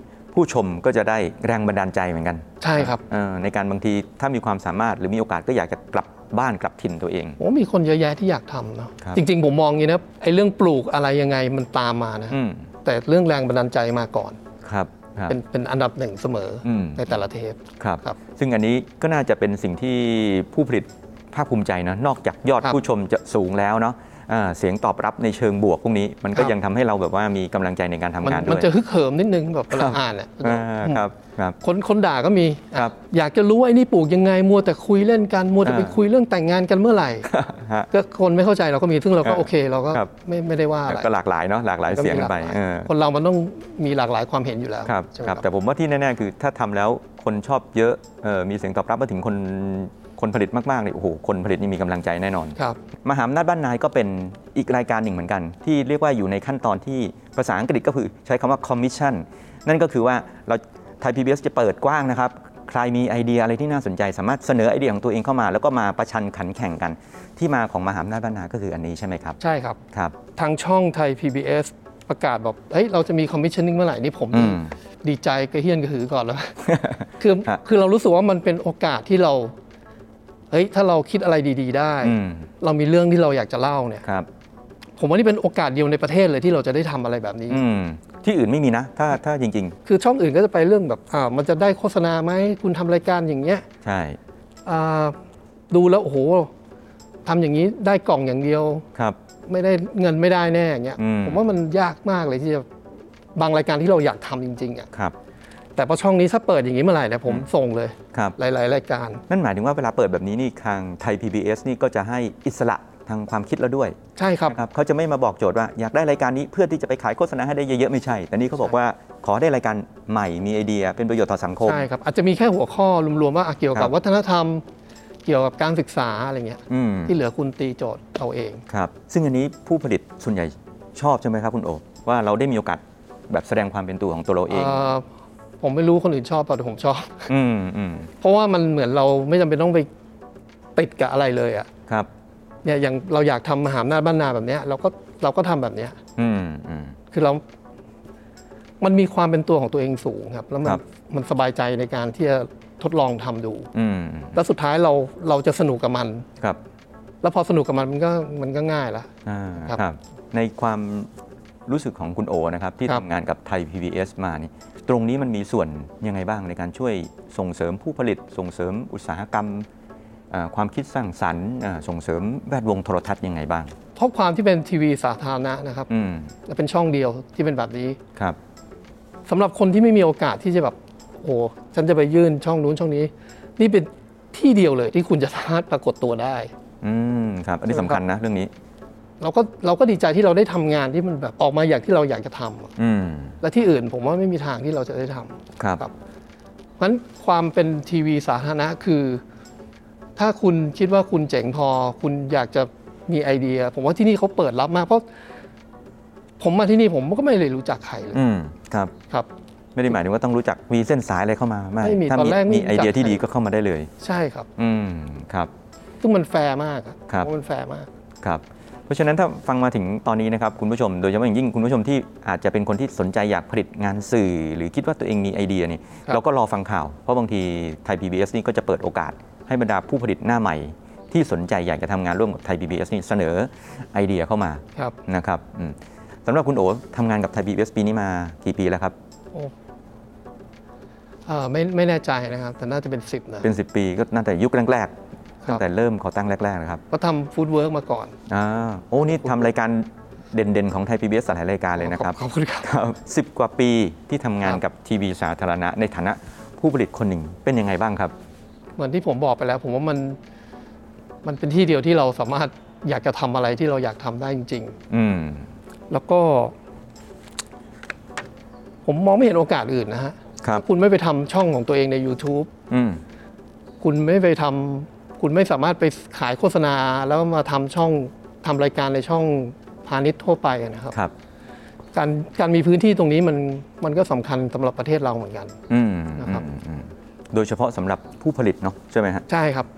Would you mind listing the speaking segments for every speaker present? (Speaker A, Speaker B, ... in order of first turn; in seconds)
Speaker A: 0.3-7.4, 12.3-12.7, 14.6-15.4, 16.6-17.1, 17.8-28.7, 29.7-31.6, 35.6-36.0, 37.3-37.9, 39.2-40.1, 40.9-42.9, 44.8-69.4, 74.3-74.7, 82.0-82.5, 87.5-89.8, 93.8-94.2, 101.0-101.5, 109.3-121.8, 126.7-127.1, 128.7-134.9, 137.3-138.1, 146.2-146.9, 153.7-154.4, 159.2-161.1, 161.7-169.7, 170.3-173.7, 175.9-176.3, 186.8-188.5, 192.8-193.4, 208.1-208.9, 209.7-213.9, 214.6-215.5, 218.2-238.9, 243.4-244.9, 245.4-246.8, 248.3-258.1, 264.9-265.5, 272.7-273.0, 285.7-289.2
Speaker B: 2.6-3.0, 7.4-14.4, 15.3-18.2, 28.2-31.0, 31.6-37.3, 37.9-41.1, 41.9-45.4, 69.4-69.8, 70.3-79.5, 80.5-84.0, 85.0-87.6, 89.8-93.7, 94.6-95.2, 95.7-96.5, 97.2-98.8, 99.5-102.7, 103.3-104.9, 105.8-109.2, 114.2-114.6, 121.6-124.6, 125.2-128.6, 134.5-135.1, 135.6-137.3, 138.2-139.9, 140.8-141.7, 142.6-146.0, 147.1-147.4, 148.8-153.7, 154.3-156.2, 157.2-159.1, 173.9-175.9, 176.4-178.0, 179.2-186.5, 187.7-188.0, 189.2-192.7, 193.4-195.9, 196.8-199.2, 200.2-205.0, 206.4-208.2, 211.8-213.2, 214.0-214.5, 216.0-217.9, 241.2-243.5, 246.9-248.1, 251.8-252.7, 258.8-260.2, 261.2-264.8, 265.9-266.5, 268.8-272.5, 273.8-280.9, 281.9-285.6, 286.2-286.4, 289.3-289.7